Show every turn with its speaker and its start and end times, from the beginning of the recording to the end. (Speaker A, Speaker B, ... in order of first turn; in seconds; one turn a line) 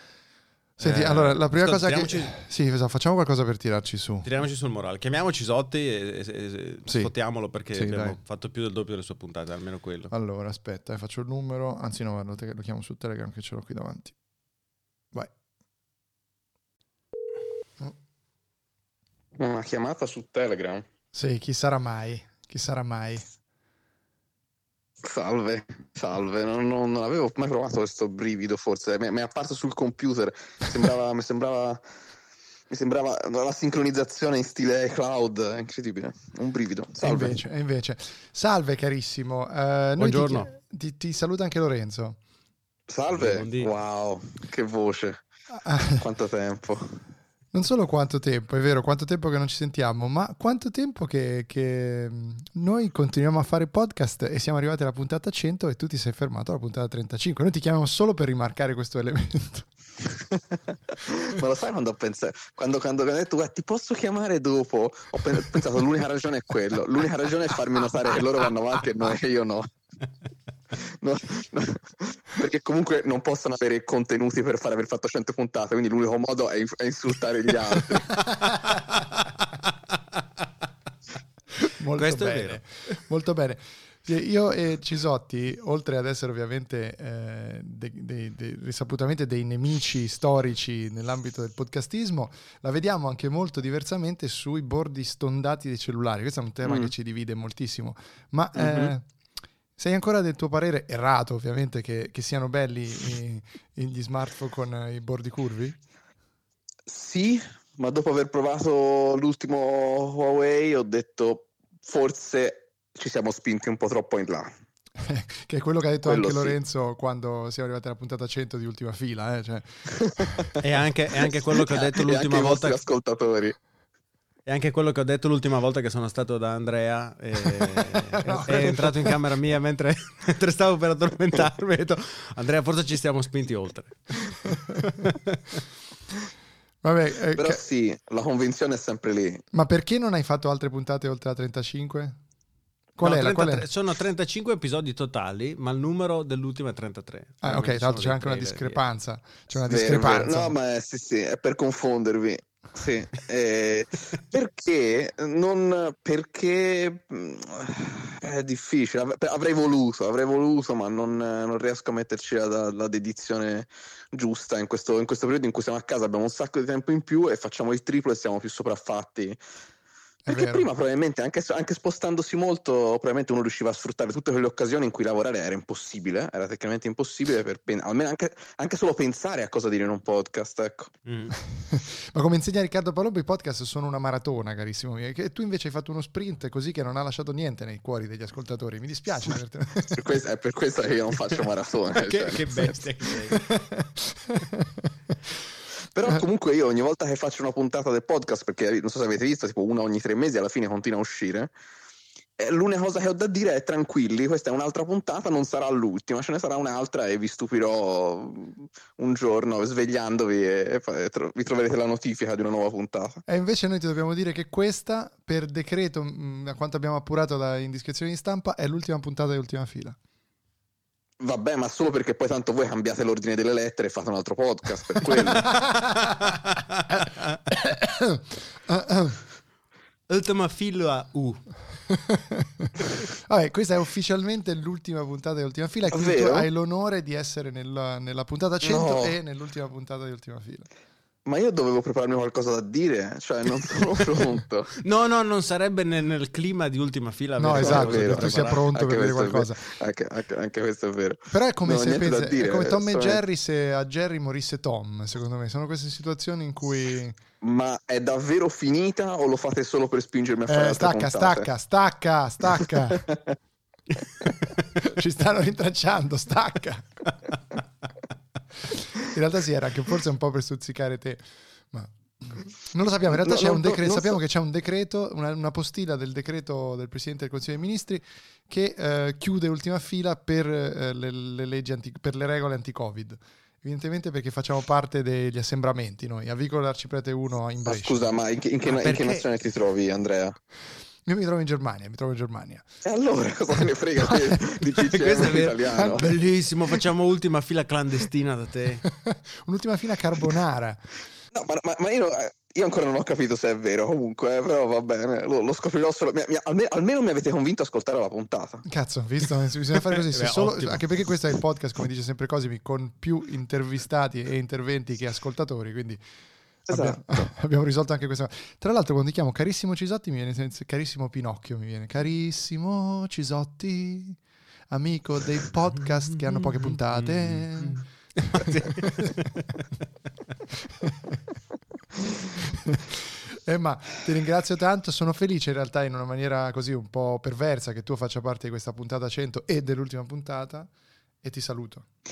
Speaker A: 0.8-4.3
Speaker B: 0.8-2.3
Speaker B: 4.2-10.1
Speaker A: 6.8-7.1
Speaker A: 7.7-8.2
Speaker A: 10.1-14.1
Speaker C: 19.4-20.9
Speaker A: 21.1-23.2
Speaker C: 25.0-31.8
Speaker C: 32.7-37.4
Speaker A: 37.0-42.2
Speaker B: 40.0-40.5
Speaker C: 42.9-45.2
Speaker B: 43.1-43.7
Speaker A: 45.5-46.0
Speaker C: 46.0-47.0
Speaker A: 47.5-59.7
Speaker C: 61.1-69.7
Speaker C: 71.0-78.0
Speaker A: 81.8-99.0
Speaker B: 82.0-82.7
Speaker C: 96.6-96.9
Speaker C: 98.5-98.9
Speaker A: 99.8-105.8
Speaker C: 106.9-114.5
Speaker A: 115.0-119.7
Speaker C: 116.0-116.6
Speaker B: 120.6-122.8
Speaker C: 121.2-123.5
Speaker B: 124.5-134.5
Speaker A: 128.2-129.2
Speaker A: 136.8-137.6
Speaker C: 137.3-139.4
Speaker A: 139.5-142.2
Speaker A: 142.9-143.7
Speaker B: 143.0-148.8
Speaker A: 147.4-150.5
Speaker C: 149.6-169.4
Speaker A: 170.2-170.7
Speaker C: 170.3-180.9
Speaker B: 181.1-181.3
Speaker A: 181.6-189.9
Speaker C: 189.9-192.9
Speaker B: 192.0-193.4
Speaker A: 193.7-194.9
Speaker C: 195.9-201.5
Speaker C: 202.4-213.2
Speaker A: 213.3-220.0
Speaker C: 221.2-225.5
Speaker A: 225.2-226.1
Speaker A: 227.5-229.2
Speaker B: 230.1-231.5
Speaker A: 232.1-232.7
Speaker A: 233.3-240.7
Speaker C: 235.9-236.5
Speaker C: 238.6-239.2
Speaker C: 241.2-244.7
Speaker B: 244.8-248.6
Speaker A: 247.4-249.6
Speaker C: 247.5-253.2
Speaker A: 251.3-257.2
Speaker C: 257.4-261.5
Speaker A: 260.5-263.0
Speaker C: 262.6-263.2
Speaker A: 264.8-266.9
Speaker A: 269.0-289.2
Speaker C: 273.1-274.2
Speaker C: 287.6-290.4
Speaker A: 291.0-292.7
Speaker C: 292.8-296.1
Speaker A: 294.0-294.4
Speaker B: 294.9-298.8
Speaker A: 295.1-296.1
Speaker A: 299.0-300.9
Speaker C: 301.3-308.6
Speaker A: 308.6-316.0
Speaker B: 309.9-310.8
Speaker A: 316.7-324.2
Speaker C: 316.7-317.3
Speaker A: 324.7-327.8
Speaker B: 326.2-329.6
Speaker A: 333.5-340.7
Speaker A: 341.2-341.8